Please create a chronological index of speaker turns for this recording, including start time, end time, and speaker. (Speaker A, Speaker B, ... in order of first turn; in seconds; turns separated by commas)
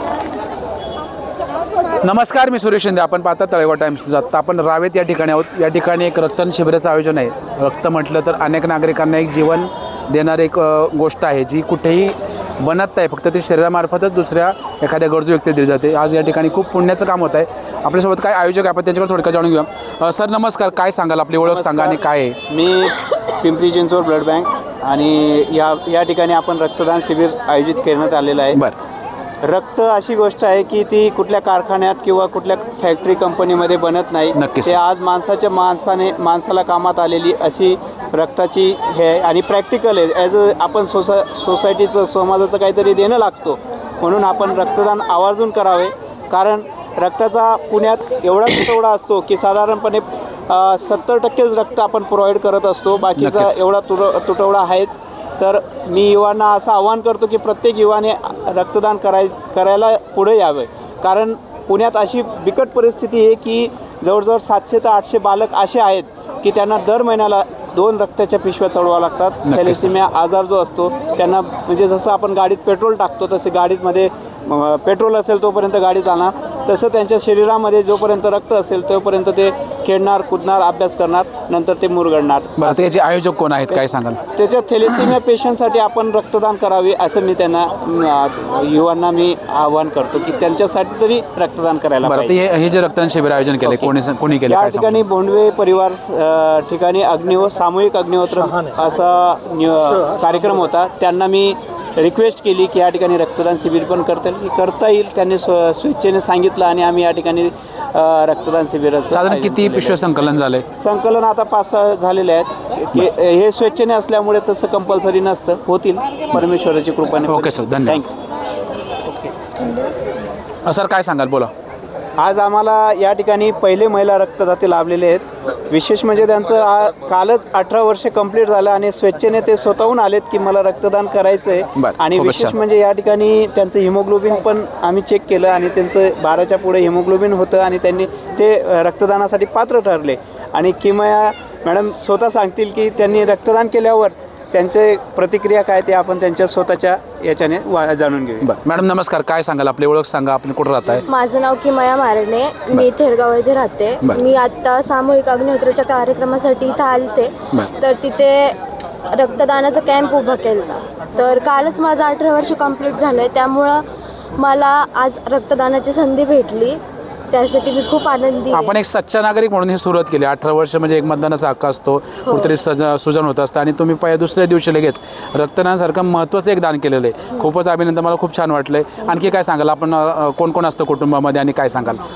Speaker A: 2.0-22.4, Speaker B: 21.4-28.6, Speaker B: 29.4-82.9, Speaker A: 34.4-34.8, Speaker A: 53.2-53.6, Speaker A: 69.4-69.9, Speaker A: 82.6-84.2, Speaker B: 84.3-92.4, Speaker A: 84.8-85.1, Speaker A: 92.0-95.0, Speaker B: 93.6-93.9, Speaker B: 94.5-110.0, Speaker A: 109.1-110.6, Speaker B: 110.8-118.1, Speaker A: 117.2-118.0, Speaker A: 120.6-121.5, Speaker B: 122.2-148.5, Speaker A: 131.8-132.6, Speaker A: 148.4-151.0, Speaker C: 151.1-158.6, Speaker C: 159.1-163.8, Speaker C: 164.3-168.8, Speaker A: 168.5-182.0, Speaker C: 172.2-172.5